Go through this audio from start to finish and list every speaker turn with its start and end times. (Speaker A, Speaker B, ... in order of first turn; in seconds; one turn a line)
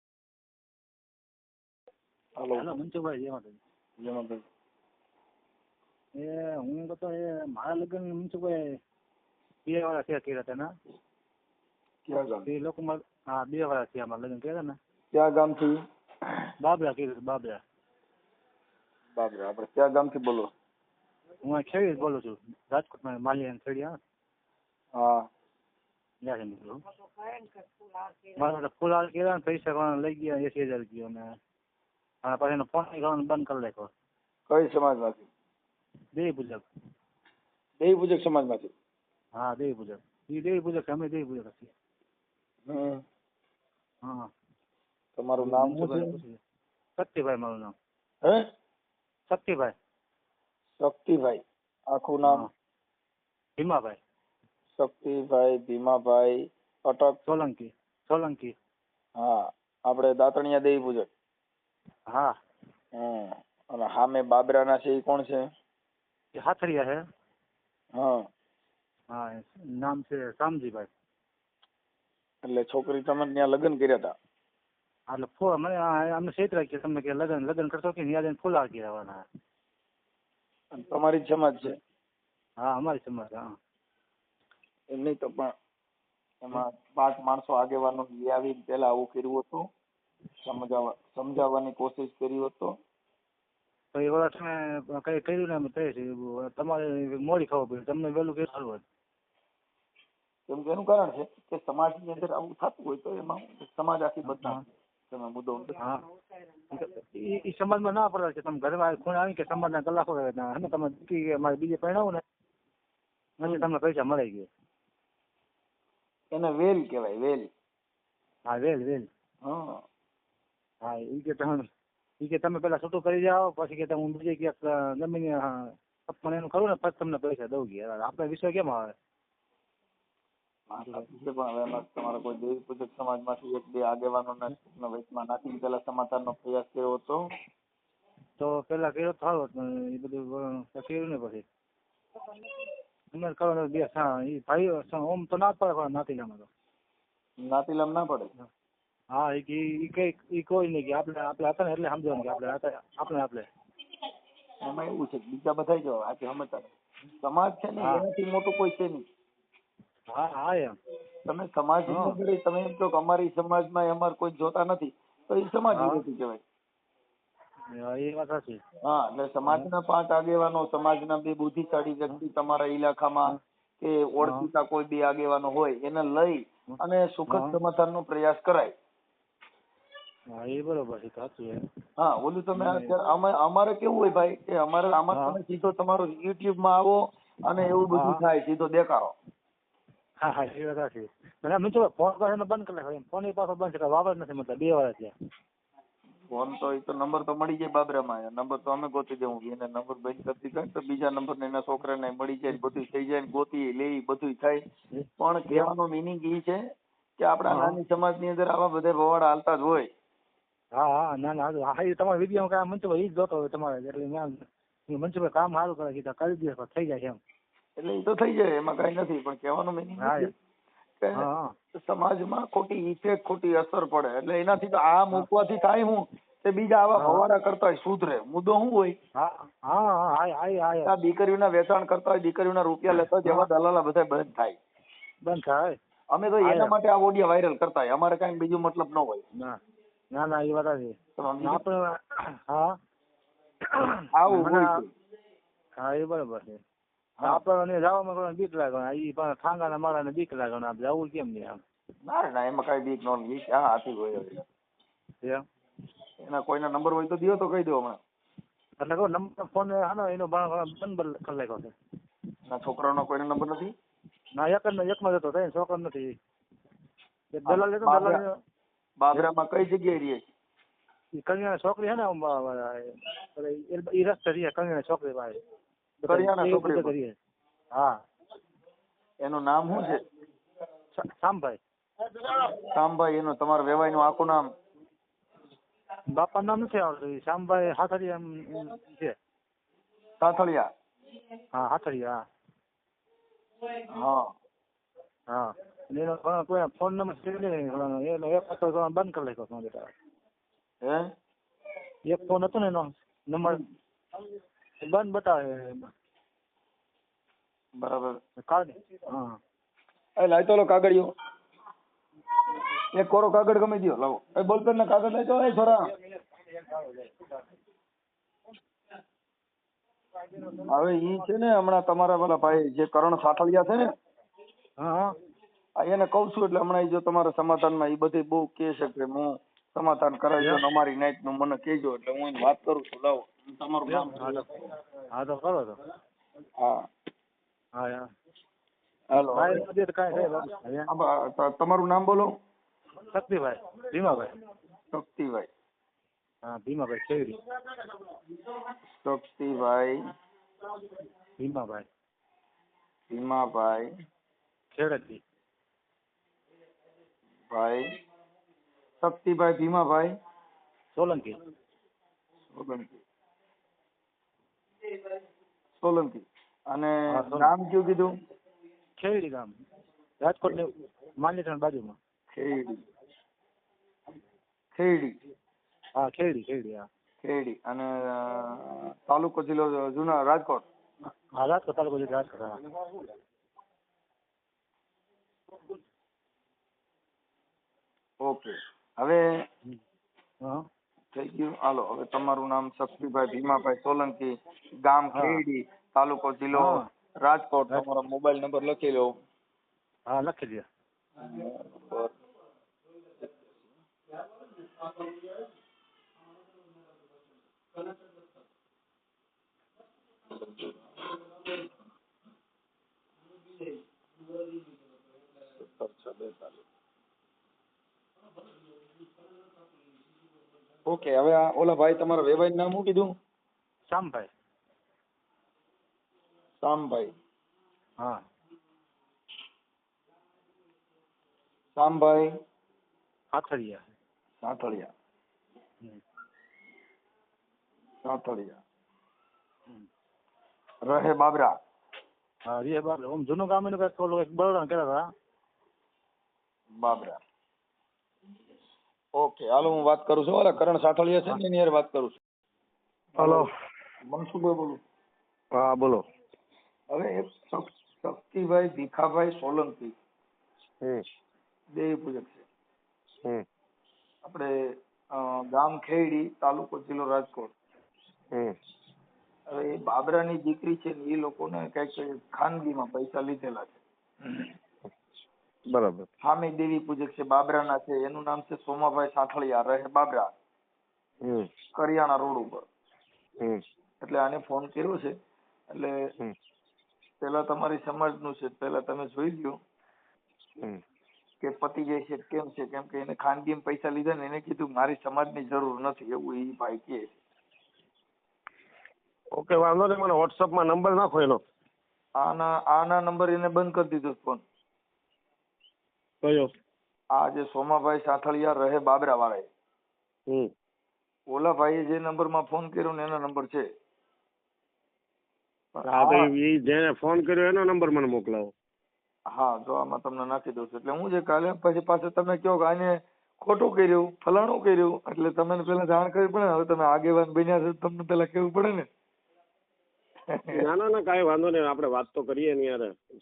Speaker A: 2.4-2.7
Speaker B: 2.5-3.6
Speaker A: 4.0-4.4
Speaker B: 6.2-8.6
Speaker B: 9.7-10.7
Speaker A: 12.1-12.5
Speaker B: 12.4-14.8
Speaker A: 15.1-15.8
Speaker B: 16.6-17.6
Speaker A: 19.1-20.5
Speaker B: 21.4-24.0
Speaker A: 24.9-25.2
Speaker B: 26.2-26.8
Speaker B: 28.4-31.2
Speaker B: 32.2-33.9
Speaker A: 34.5-35.3
Speaker B: 36.1-36.6
Speaker A: 37.8-38.7
Speaker B: 39.4-41.7
Speaker A: 42.7-43.0
Speaker B: 44.0-44.3
Speaker A: 45.1-46.1
Speaker B: 45.4-46.4
Speaker B: 47.0-47.7
Speaker B: 49.3-49.7
Speaker A: 50.8-52.5
Speaker B: 53.6-54.0
Speaker A: 54.8-57.2
Speaker B: 57.2-58.5
Speaker A: 59.1-61.1
Speaker A: 63.0-65.4
Speaker B: 66.4-67.0
Speaker A: 67.9-68.2
Speaker B: 69.1-70.9
Speaker A: 72.4-74.1
Speaker B: 75.1-79.2
Speaker A: 80.7-81.8
Speaker B: 82.6-83.5
Speaker A: 84.9-85.5
Speaker A: 86.4-89.7
Speaker A: 90.4-92.7
Speaker B: 93.9-98.8
Speaker A: 100.5-105.8
Speaker B: 104.3-104.6
Speaker B: 106.7-112.2
Speaker B: 113.4-114.5
Speaker A: 116.3-117.5
Speaker B: 118.5-119.1
Speaker A: 119.4-119.8
Speaker B: 120.8-121.7
Speaker B: 122.2-128.9
Speaker A: 130.7-137.2
Speaker B: 130.8-131.1
Speaker B: 138.4-141.4
Speaker B: 143.1-146.5
Speaker A: 147.4-148.3
Speaker B: 149.1-153.5
Speaker A: 154.6-156.7
Speaker A: 157.2-159.0
Speaker B: 157.8-158.0
Speaker B: 160.1-160.8
Speaker A: 161.2-166.4
Speaker B: 161.9-162.2
Speaker B: 165.7-166.0
Speaker B: 167.7-168.6
Speaker A: 168.8-178.7
Speaker B: 174.2-174.5
Speaker B: 180.3-181.6
Speaker A: 182.0-189.1
Speaker B: 182.5-182.9
Speaker B: 185.1-185.4
Speaker B: 187.9-188.2
Speaker B: 190.2-195.1
Speaker A: 196.3-204.6
Speaker B: 204.9-205.7
Speaker A: 205.2-206.6
Speaker A: 207.2-209.9
Speaker B: 207.5-207.8
Speaker B: 210.7-217.2
Speaker A: 217.8-220.3
Speaker B: 220.0-220.3
Speaker A: 221.0-228.9
Speaker B: 221.2-221.5
Speaker B: 227.0-227.2
Speaker B: 229.2-230.9
Speaker A: 230.8-234.6
Speaker B: 235.2-235.8
Speaker A: 236.1-239.2
Speaker B: 236.4-236.8
Speaker B: 240.1-242.8
Speaker A: 241.2-241.6
Speaker B: 243.7-244.8
Speaker A: 244.1-244.9
Speaker B: 245.8-246.6
Speaker B: 247.2-251.6
Speaker A: 252.0-254.4
Speaker A: 256.2-258.0
Speaker B: 258.8-261.7
Speaker A: 262.5-263.7
Speaker B: 264.3-266.1
Speaker B: 267.3-268.3
Speaker A: 267.5-268.2
Speaker A: 269.0-270.2
Speaker B: 271.1-275.4
Speaker B: 276.0-277.1
Speaker A: 276.1-276.9
Speaker B: 277.7-278.0
Speaker A: 279.2-280.0
Speaker B: 280.9-281.6
Speaker A: 282.5-284.4
Speaker B: 286.1-289.1
Speaker A: 290.2-290.7
Speaker B: 291.5-292.1
Speaker A: 293.9-294.3
Speaker B: 295.3-299.9
Speaker B: 302.1-303.6
Speaker B: 304.8-305.9
Speaker A: 307.8-308.2
Speaker B: 308.4-309.4
Speaker A: 310.2-311.1
Speaker A: 312.9-315.9
Speaker B: 316.4-317.2
Speaker B: 320.2-320.7
Speaker A: 320.5-323.9
Speaker B: 324.8-325.1
Speaker A: 325.8-334.6
Speaker B: 333.9-335.8
Speaker A: 336.6-336.8
Speaker B: 337.8-338.1
Speaker A: 339.1-342.3
Speaker B: 339.3-340.9
Speaker B: 343.0-344.4
Speaker A: 344.9-345.5
Speaker B: 346.4-347.4
Speaker A: 349.0-350.0
Speaker B: 351.4-351.9
Speaker A: 353.1-353.9
Speaker B: 354.7-355.2
Speaker A: 357.5-357.9
Speaker A: 359.0-360.1
Speaker B: 360.9-361.4
Speaker A: 362.5-363.0
Speaker A: 365.8-368.1
Speaker B: 367.1-367.5
Speaker B: 369.0-369.5
Speaker B: 370.2-372.0
Speaker A: 372.3-372.8
Speaker A: 374.7-375.2
Speaker B: 376.0-376.9
Speaker A: 377.2-380.6
Speaker B: 381.4-382.6
Speaker A: 388.2-389.2
Speaker A: 391.1-399.1
Speaker B: 395.1-395.4
Speaker B: 396.5-396.8
Speaker B: 397.7-398.0
Speaker B: 400.1-400.7
Speaker A: 401.2-402.1
Speaker A: 410.3-410.9
Speaker A: 415.6-416.6
Speaker A: 420.9-423.1
Speaker B: 423.9-424.3
Speaker A: 426.6-427.1
Speaker A: 431.8-432.3
Speaker B: 433.3-433.8
Speaker A: 434.4-434.9
Speaker A: 438.0-438.6
Speaker A: 440.8-441.5
Speaker B: 442.5-445.0
Speaker A: 446.7-447.2
Speaker A: 449.1-452.2
Speaker A: 453.1-453.5
Speaker C: 453.2-453.5
Speaker A: 454.0-454.8
Speaker C: 455.5-456.0
Speaker A: 456.9-459.9
Speaker A: 461.7-462.4
Speaker A: 465.1-467.5
Speaker A: 469.5-474.5
Speaker C: 475.7-476.1
Speaker A: 476.2-480.3
Speaker A: 481.7-482.6
Speaker A: 484.0-485.1
Speaker A: 485.7-485.9
Speaker A: 487.2-489.6
Speaker A: 491.4-497.1
Speaker C: 499.3-501.4
Speaker A: 502.2-504.4
Speaker C: 506.2-506.5
Speaker A: 507.1-509.5
Speaker A: 511.3-513.6
Speaker A: 515.7-516.3
Speaker C: 515.8-518.5
Speaker A: 519.3-528.9
Speaker A: 530.3-530.6
Speaker C: 530.5-532.9